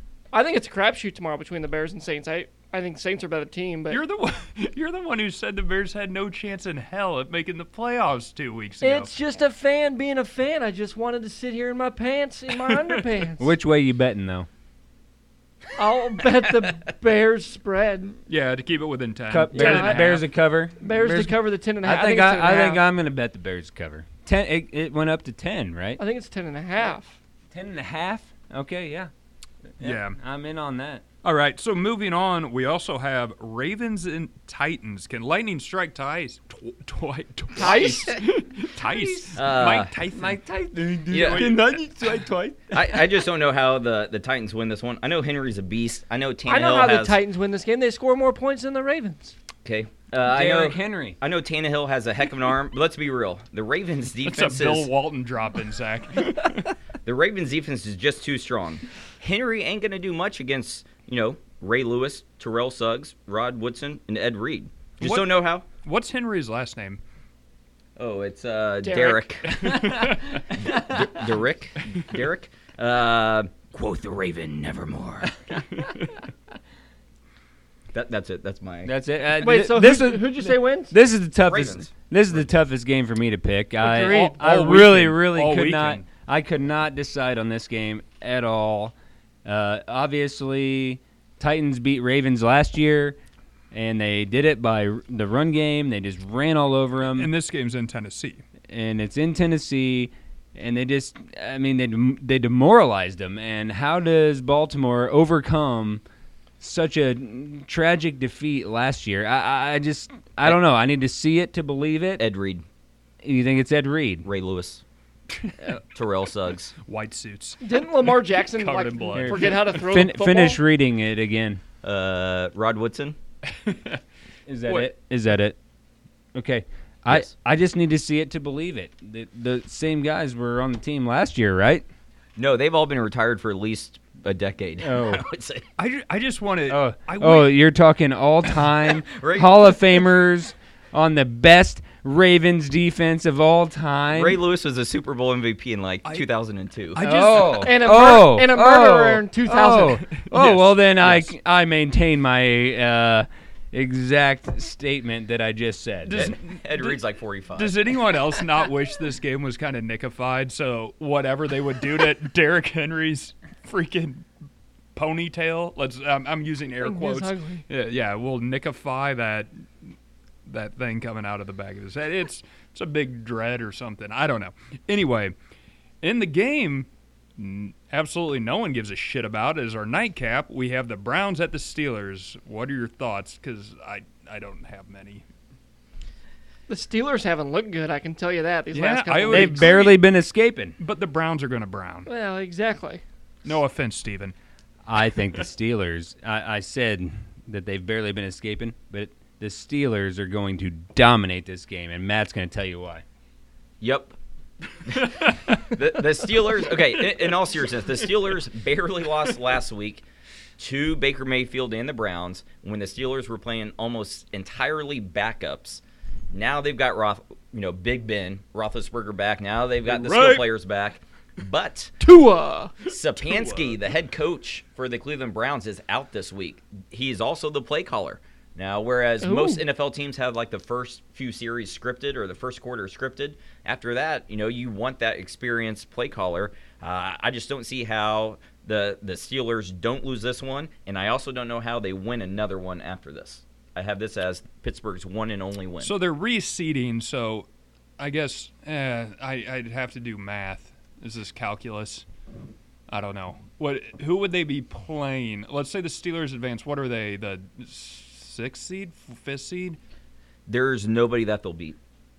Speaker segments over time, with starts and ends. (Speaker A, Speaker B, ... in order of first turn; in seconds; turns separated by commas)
Speaker A: 0.3-4.0, Speaker B: 3.9-9.1, Speaker A: 8.8-13.5, Speaker B: 12.7-13.0, Speaker C: 13.4-14.5, Speaker A: 15.8-18.1, Speaker B: 18.3-20.3, Speaker C: 19.3-26.0, Speaker A: 19.5-20.1, Speaker A: 20.8-22.8, Speaker A: 26.0-27.2, Speaker C: 27.5-29.1, Speaker C: 29.8-31.0, Speaker B: 29.8-30.2, Speaker B: 31.2-40.4, Speaker A: 37.5-38.2, Speaker D: 37.6-38.1, Speaker C: 38.8-39.4, Speaker D: 39.3-39.9, Speaker C: 40.1-43.0, Speaker D: 41.1-41.5, Speaker B: 41.1-41.6, Speaker D: 42.7-47.2, Speaker A: 46.5-49.3, Speaker D: 49.6-54.9, Speaker C: 50.2-51.2, Speaker B: 54.2-56.7, Speaker D: 57.0-65.7, Speaker B: 65.0-67.0, Speaker D: 68.0-75.3, Speaker A: 68.8-69.3, Speaker B: 69.5-70.4, Speaker C: 69.6-71.1, Speaker D: 77.9-78.9, Speaker C: 78.8-88.9, Speaker A: 79.4-80.9, Speaker D: 81.4-82.5, Speaker A: 83.8-84.4, Speaker B: 84.0-86.1, Speaker C: 89.4-93.2, Speaker C: 93.7-97.3, Speaker B: 97.1-98.4, Speaker C: 98.7-106.0, Speaker C: 106.6-112.2, Speaker D: 112.2-112.6, Speaker C: 113.2-114.3, Speaker D: 114.2-114.8, Speaker B: 115.3-115.7, Speaker D: 115.9-116.7, Speaker B: 116.8-119.8, Speaker A: 117.6-120.6, Speaker C: 119.1-121.6, Speaker D: 121.8-123.2, Speaker B: 123.5-124.0, Speaker C: 124.5-125.6, Speaker C: 126.3-131.8, Speaker D: 132.3-135.6, Speaker C: 134.8-135.2, Speaker B: 135.8-137.6, Speaker C: 136.7-144.4, Speaker D: 139.1-140.0, Speaker D: 144.1-147.0, Speaker B: 146.9-147.8, Speaker C: 147.0-156.3, Speaker A: 147.4-150.0, Speaker B: 150.1-151.3, Speaker B: 156.1-157.0, Speaker D: 156.1-157.7, Speaker B: 157.6-164.2, Speaker B: 164.9-169.9, Speaker A: 166.8-167.6, Speaker B: 170.4-175.3, Speaker B: 176.0-185.2, Speaker A: 186.7-189.7, Speaker B: 188.7-190.0, Speaker C: 189.3-190.8, Speaker B: 190.8-192.1, Speaker A: 192.1-193.0, Speaker B: 193.4-194.3, Speaker C: 194.8-203.0, Speaker D: 203.8-204.2, Speaker D: 204.8-210.0, Speaker D: 210.6-221.9, Speaker B: 219.8-220.4, Speaker A: 222.0-222.7, Speaker D: 222.9-245.9, Speaker B: 223.1-223.8, Speaker A: 229.2-229.6, Speaker B: 245.8-247.5, Speaker B: 248.0-252.1, Speaker B: 252.9-259.8, Speaker D: 260.5-261.8